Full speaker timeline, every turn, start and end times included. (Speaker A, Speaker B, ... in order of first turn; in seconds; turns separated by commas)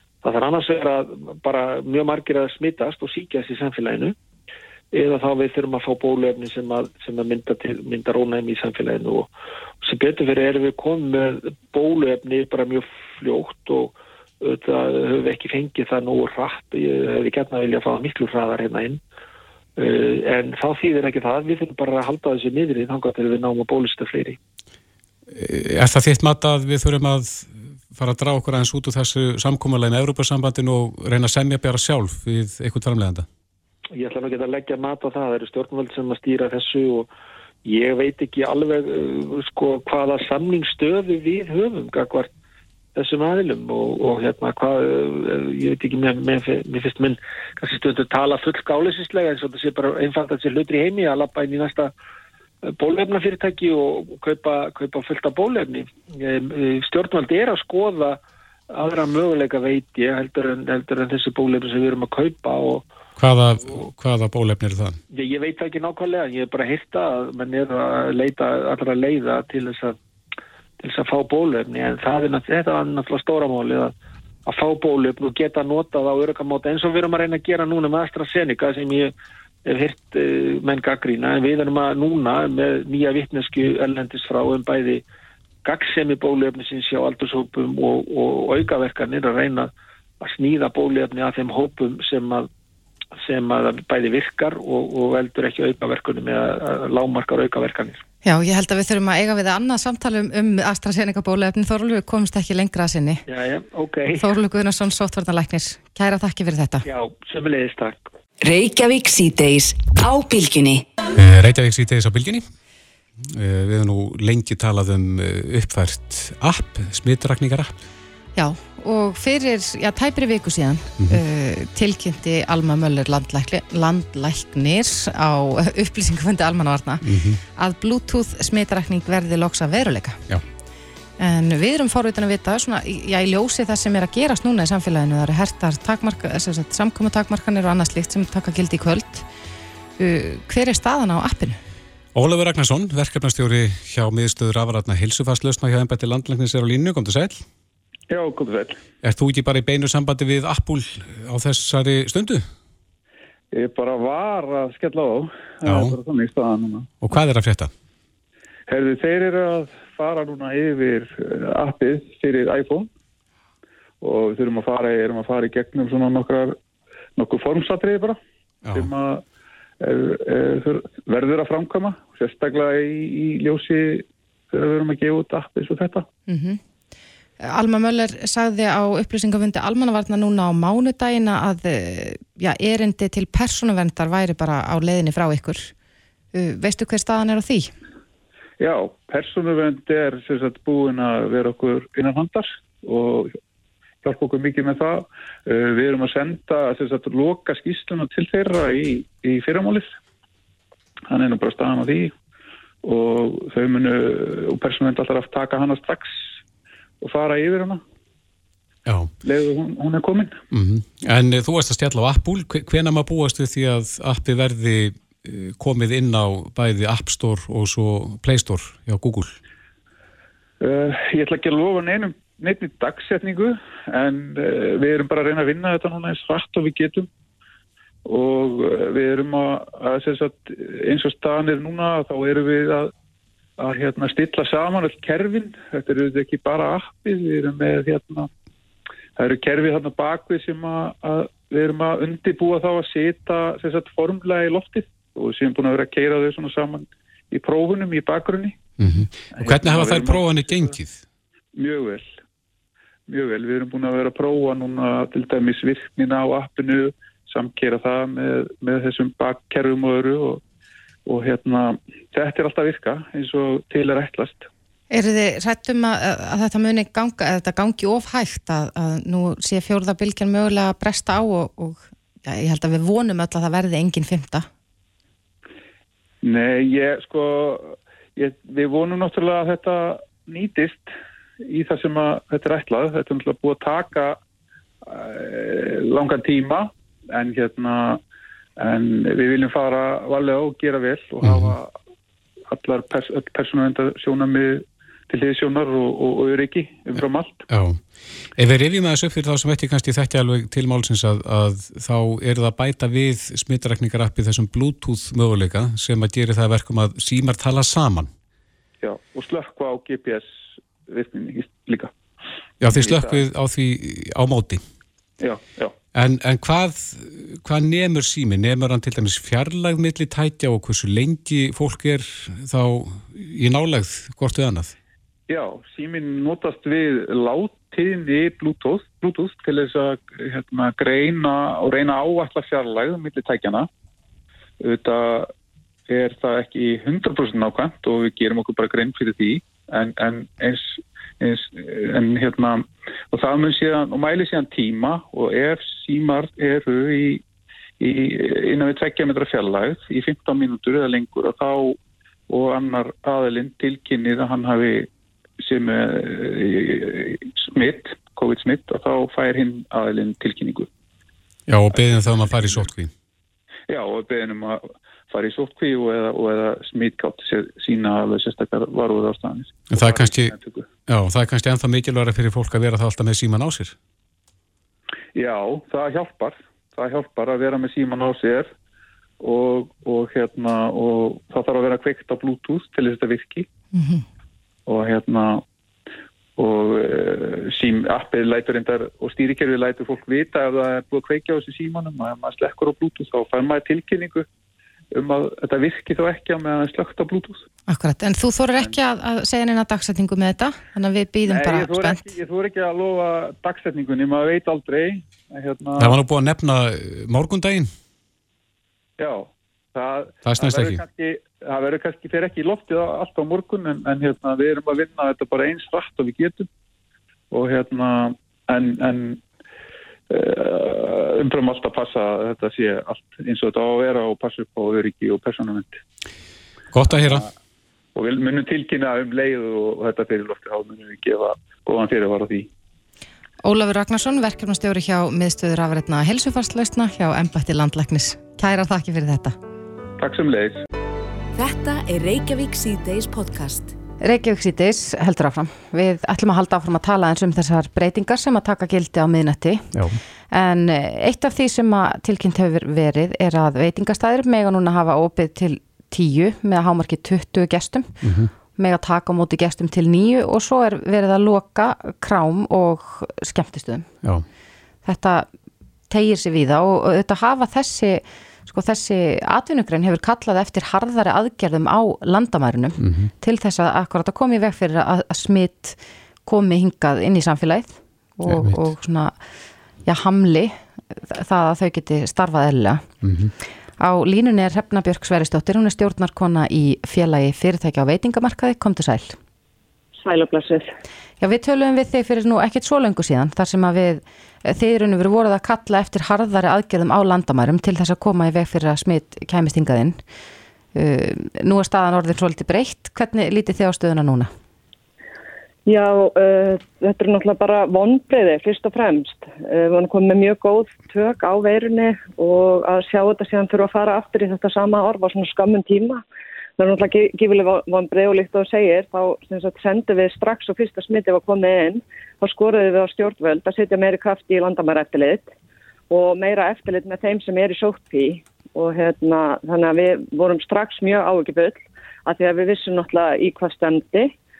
Speaker A: 0.2-4.1, Speaker A: 4.9-9.3, Speaker A: 9.8-19.0, Speaker A: 19.8-24.4, Speaker B: 25.3-33.2, Speaker A: 33.9-37.1, Speaker A: 37.6-42.3, Speaker A: 43.0-51.9, Speaker A: 52.7-58.2, Speaker A: 58.7-62.8, Speaker B: 63.2-65.0, Speaker A: 65.1-70.0, Speaker A: 70.8-73.9, Speaker A: 74.5-79.1, Speaker A: 79.7-85.0, Speaker A: 85.6-92.5, Speaker A: 93.2-98.0, Speaker C: 98.2-103.2, Speaker A: 103.3-104.3, Speaker C: 104.1-106.8, Speaker A: 106.8-108.0, Speaker D: 108.4-110.8, Speaker B: 111.2-112.4, Speaker B: 113.3-117.7, Speaker C: 118.3-127.0, Speaker B: 127.0-127.4, Speaker C: 127.5-130.2, Speaker C: 131.2-139.2, Speaker C: 140.0-141.6, Speaker B: 142.1-147.4, Speaker E: 148.1-148.8, Speaker B: 149.0-152.4, Speaker E: 153.5-156.9, Speaker B: 155.6-156.0, Speaker B: 157.0-157.7, Speaker E: 158.7-162.9, Speaker E: 164.0-166.6, Speaker E: 167.2-168.2, Speaker B: 168.6-168.9, Speaker E: 168.7-169.2, Speaker E: 169.8-176.1, Speaker C: 176.3-176.6, Speaker C: 177.4-185.7, Speaker C: 186.3-187.7, Speaker E: 188.6-193.4, Speaker E: 194.0-199.9, Speaker E: 201.1-202.1, Speaker E: 202.8-206.3, Speaker E: 207.0-207.8, Speaker B: 208.8-209.1, Speaker E: 209.2-210.3, Speaker B: 210.5-219.4, Speaker E: 220.6-227.1, Speaker E: 228.0-232.9, Speaker E: 233.6-238.3, Speaker E: 239.2-248.6, Speaker B: 248.8-251.0, Speaker E: 249.3-250.7, Speaker E: 251.5-252.1, Speaker E: 253.1-260.4, Speaker E: 261.1-264.5, Speaker C: 264.9-274.5, Speaker E: 276.2-280.9, Speaker E: 281.4-284.2, Speaker E: 284.8-288.0, Speaker E: 288.6-291.7, Speaker B: 291.2-291.6, Speaker E: 292.5-297.4, Speaker B: 296.9-297.8, Speaker B: 298.4-308.1, Speaker E: 308.8-310.3, Speaker E: 310.9-311.9, Speaker B: 312.6-314.6, Speaker E: 312.7-313.2, Speaker E: 315.2-315.7, Speaker B: 315.9-324.7, Speaker E: 325.3-333.7, Speaker E: 334.6-335.3, Speaker E: 335.9-347.2, Speaker E: 347.8-351.8, Speaker E: 352.3-354.9, Speaker E: 355.4-360.7, Speaker B: 361.5-362.9, Speaker E: 361.8-362.6, Speaker E: 363.7-370.7, Speaker B: 369.7-370.3, Speaker B: 370.9-373.7, Speaker E: 375.1-378.5, Speaker E: 379.2-383.5, Speaker C: 383.7-384.0, Speaker E: 384.7-385.4, Speaker E: 386.4-394.2, Speaker E: 394.9-397.4, Speaker C: 397.7-402.1, Speaker E: 401.2-406.0, Speaker B: 405.8-407.7, Speaker E: 409.0-416.5, Speaker B: 410.2-410.8, Speaker E: 417.3-419.2, Speaker E: 420.1-425.8, Speaker B: 426.7-427.3, Speaker E: 426.9-427.3, Speaker E: 427.9-432.5, Speaker C: 433.4-439.3, Speaker E: 440.0-440.6, Speaker D: 441.3-443.7, Speaker C: 444.0-449.7, Speaker B: 449.7-450.0, Speaker C: 450.3-457.9, Speaker B: 458.0-458.3, Speaker C: 458.6-463.9, Speaker C: 464.8-465.3, Speaker C: 465.9-479.1, Speaker B: 472.8-473.1, Speaker B: 478.2-478.6, Speaker C: 479.9-482.8, Speaker B: 483.0-483.3, Speaker C: 483.8-489.2, Speaker F: 490.0-490.7, Speaker C: 491.2-500.0, Speaker C: 500.7-504.3, Speaker F: 505.7-516.0, Speaker F: 516.6-525.3, Speaker F: 525.9-534.1